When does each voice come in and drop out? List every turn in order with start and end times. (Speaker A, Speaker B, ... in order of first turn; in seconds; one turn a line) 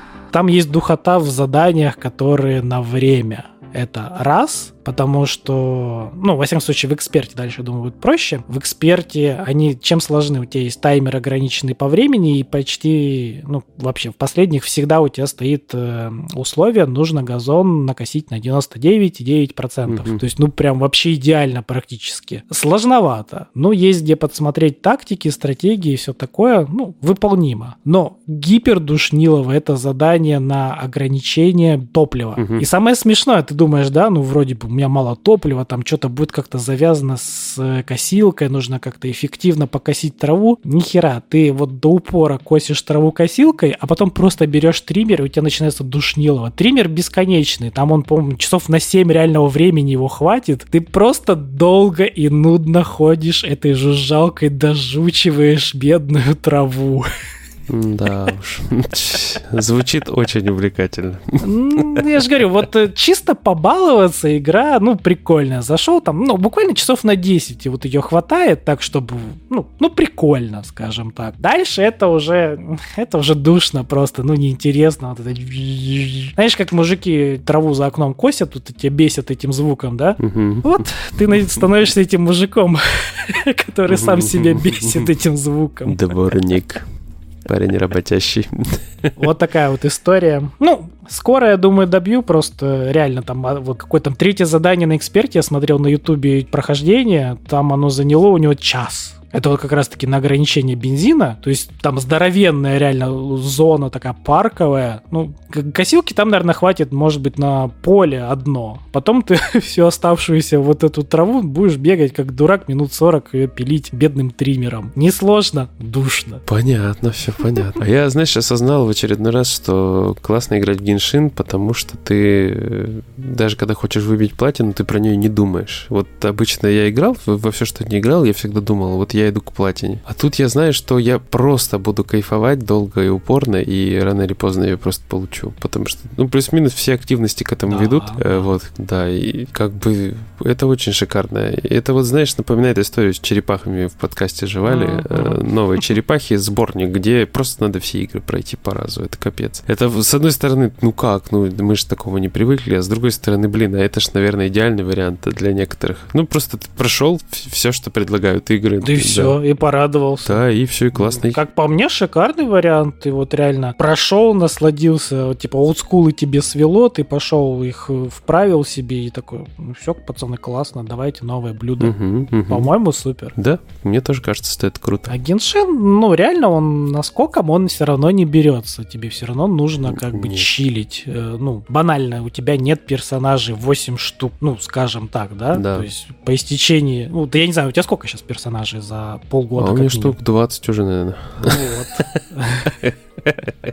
Speaker A: 0.3-57.1
Speaker B: 19.9-20.2
Speaker B: 32.4-32.6
Speaker B: 57.7-62.1
Speaker A: 61.4-86.0
Speaker B: 80.2-81.3
Speaker B: 83.9-85.1
Speaker B: 85.8-86.8
Speaker B: 87.5-89.1
Speaker A: 89.2-116.4
Speaker B: 116.5-159.4
Speaker A: 137.7-138.5
Speaker A: 144.7-145.4
Speaker A: 158.8-173.3
Speaker B: 160.2-161.4
Speaker B: 171.8-172.7
Speaker B: 173.3-175.1
Speaker A: 175.1-190.2
Speaker B: 179.9-180.5
Speaker B: 185.5-185.8
Speaker B: 189.6-192.1
Speaker A: 191.4-192.7
Speaker B: 192.7-193.5